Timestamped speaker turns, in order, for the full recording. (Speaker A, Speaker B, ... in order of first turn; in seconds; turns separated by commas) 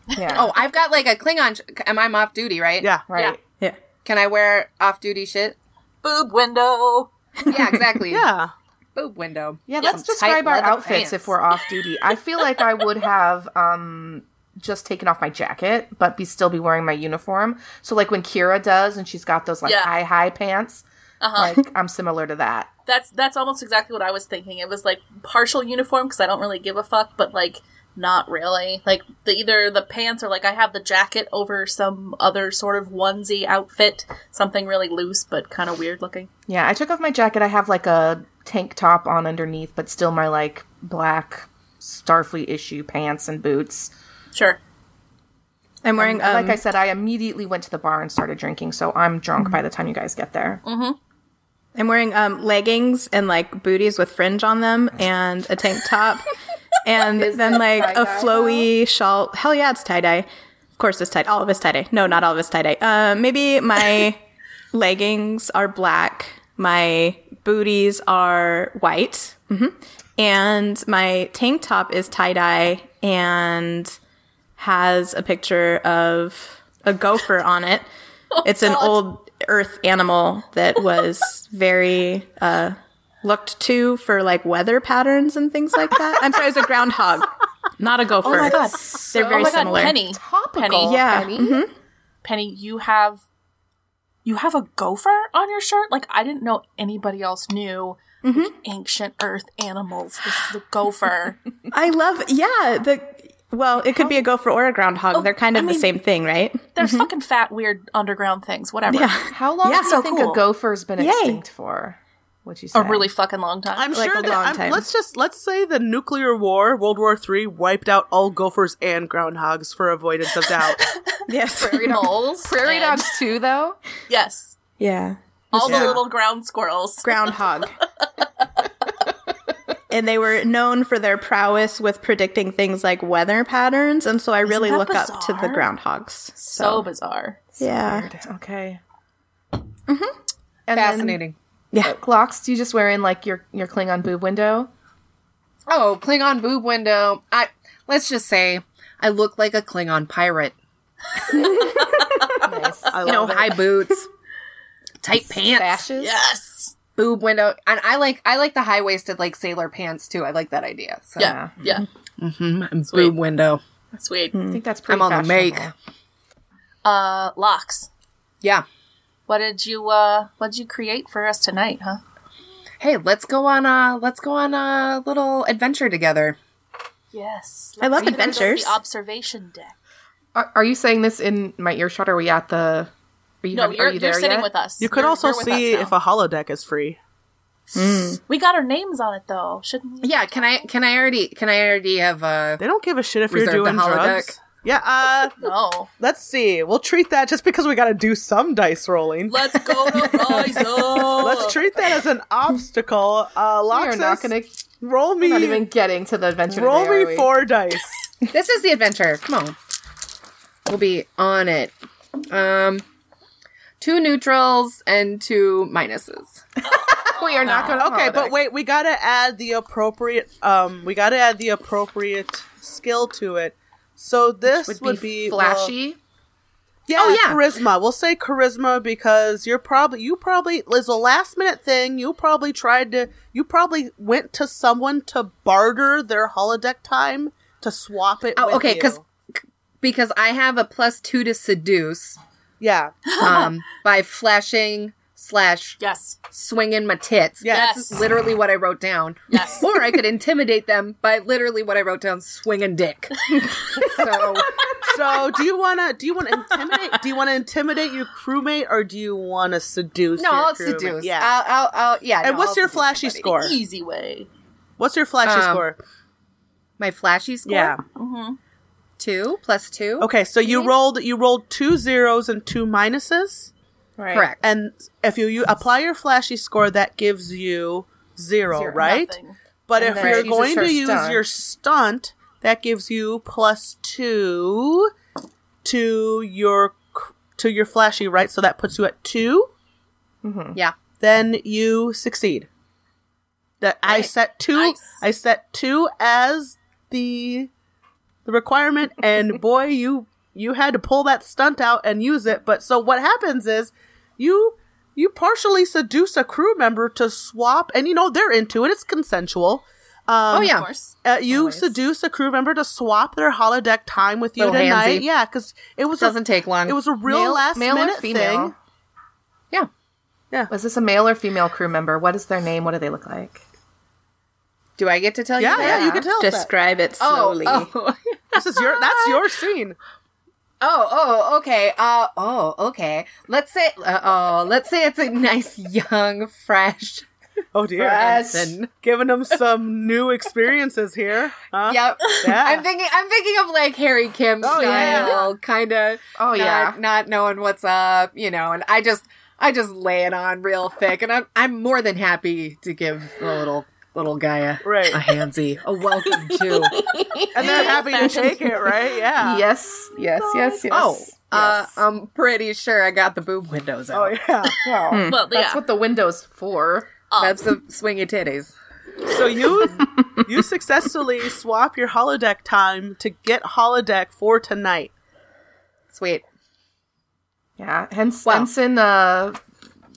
Speaker A: 0.1-0.5, Speaker B: 0.3-2.9, Speaker A: 3.1-3.4, Speaker B: 4.0-5.6, Speaker C: 6.0-7.1, Speaker B: 7.5-8.3, Speaker D: 8.1-8.5, Speaker B: 8.9-11.3, Speaker A: 9.7-20.9, Speaker C: 19.6-19.9, Speaker C: 21.2-21.6, Speaker A: 21.4-22.7, Speaker C: 22.9-36.3, Speaker A: 36.5-43.9, Speaker C: 44.3-44.6, Speaker E: 45.8-46.6, Speaker A: 46.0-50.6, Speaker C: 50.6-51.0, Speaker E: 51.8-56.3, Speaker E: 56.8-64.2, Speaker A: 57.2-58.7, Speaker E: 64.7-74.0, Speaker E: 74.6-77.9, Speaker C: 78.4-79.0, Speaker E: 78.4-90.0, Speaker A: 88.2-91.7, Speaker C: 88.2-91.0, Speaker E: 90.8-91.7, Speaker C: 92.2-93.2, Speaker C: 94.2-101.4, Speaker E: 98.2-98.5, Speaker E: 101.7-107.1, Speaker A: 103.9-104.2, Speaker C: 105.1-105.9, Speaker C: 106.8-109.3, Speaker E: 108.9-110.0, Speaker A: 109.3-113.1, Speaker C: 109.8-110.4, Speaker E: 111.0-111.4, Speaker C: 112.7-114.3, Speaker D: 113.8-120.8, Speaker E: 113.9-114.9, Speaker C: 120.7-123.1, Speaker E: 121.3-122.1, Speaker A: 121.6-123.8, Speaker C: 124.1-124.6, Speaker E: 124.8-125.9, Speaker C: 125.5-128.1, Speaker D: 125.6-126.0, Speaker E: 127.0-127.7, Speaker E: 129.9-136.9, Speaker C: 134.5-135.7, Speaker C: 136.4-137.4, Speaker A: 137.6-138.8, Speaker E: 137.6-138.1, Speaker E: 139.9-140.1, Speaker A: 140.7-141.2, Speaker B: 140.7-141.4, Speaker A: 141.8-144.7, Speaker B: 145.7-150.5, Speaker C: 151.3-152.4, Speaker A: 152.4-153.3, Speaker D: 152.9-153.6, Speaker B: 153.0-154.1, Speaker B: 155.0-155.8, Speaker A: 155.5-156.2, Speaker C: 156.0-156.7, Speaker B: 157.0-161.3, Speaker A: 161.2-161.6, Speaker C: 161.2-161.8, Speaker B: 162.2-163.6, Speaker C: 162.9-163.1, Speaker C: 163.9-164.4, Speaker E: 164.3-164.6, Speaker A: 164.5-165.7, Speaker B: 164.9-165.7, Speaker C: 166.8-167.9, Speaker C: 169.3-172.0, Speaker B: 172.8-176.4, Speaker C: 177.1-179.8, Speaker E: 177.8-178.8, Speaker A: 178.0-178.6, Speaker A: 180.3-182.9, Speaker A: 183.4-184.5, Speaker C: 183.5-185.9, Speaker D: 184.8-187.0, Speaker C: 187.7-190.7, Speaker E: 187.8-188.2, Speaker B: 190.0-192.6, Speaker D: 192.6-195.4, Speaker B: 193.3-194.3, Speaker C: 195.4-195.9, Speaker D: 196.0-204.3, Speaker C: 199.3-201.6, Speaker A: 203.7-204.6, Speaker D: 204.8-205.7, Speaker A: 205.2-207.3, Speaker D: 206.5-208.0, Speaker B: 208.3-209.6, Speaker B: 210.7-212.8, Speaker B: 213.8-216.4, Speaker A: 216.7-218.3, Speaker C: 217.5-217.8, Speaker D: 217.8-225.7, Speaker A: 224.5-226.0, Speaker D: 226.9-239.0, Speaker B: 226.9-227.4, Speaker B: 238.4-242.2, Speaker D: 242.6-243.1, Speaker C: 243.1-243.6, Speaker B: 243.2-245.8, Speaker C: 245.8-246.2, Speaker B: 246.3-254.7, Speaker D: 247.4-248.0, Speaker C: 247.5-248.0, Speaker C: 249.3-249.7, Speaker D: 254.8-261.3, Speaker B: 260.2-263.3, Speaker D: 262.2-263.6, Speaker C: 263.3-264.3, Speaker D: 264.8-265.8, Speaker B: 265.2-265.7, Speaker B: 266.8-267.8, Speaker D: 267.5-267.8, Speaker C: 267.9-268.4, Speaker B: 269.0-270.1, Speaker D: 270.0-273.5, Speaker C: 270.4-270.8, Speaker A: 274.0-274.3, Speaker B: 274.1-274.4, Speaker D: 274.4-279.2, Speaker A: 278.5-278.9, Speaker C: 278.7-279.4, Speaker D: 279.7-284.9, Speaker A: 279.8-281.2, Speaker B: 280.0-280.3, Speaker D: 285.6-289.5, Speaker A: 290.2-290.6, Speaker D: 291.0-292.5, Speaker D: 293.6-297.5, Speaker C: 293.9-295.0, Speaker D: 298.2-318.5, Speaker B: 310.3-310.7, Speaker C: 310.4-310.9, Speaker A: 311.3-311.7, Speaker B: 314.4-315.1, Speaker B: 316.0-316.8, Speaker A: 317.1-318.6, Speaker A: 320.5-323.4, Speaker B: 324.8-325.9, Speaker D: 325.4-326.5, Speaker A: 325.5-326.1, Speaker E: 326.2-327.7, Speaker B: 327.0-329.3, Speaker D: 328.4-329.8, Speaker B: 330.6-337.1, Speaker D: 337.5-342.6, Speaker B: 337.8-338.7, Speaker A: 337.8-338.5, Speaker B: 341.7-356.8, Speaker D: 344.4-345.3, Speaker A: 344.5-345.2, Speaker A: 346.2-346.8, Speaker D: 354.6-355.0, Speaker A: 356.1-357.9, Speaker D: 357.3-359.4, Speaker C: 357.4-358.8, Speaker A: 359.2-361.7, Speaker C: 360.3-360.6, Speaker B: 360.7-364.2, Speaker D: 363.9-364.6, Speaker C: 364.4-365.6, Speaker A: 364.6-366.9, Speaker E: 364.9-365.2, Speaker C: 367.1-367.4, Speaker B: 367.2-368.5, Speaker D: 369.1-374.9, Speaker B: 375.9-376.2, Speaker A: 377.6-379.4, Speaker B: 378.2-378.5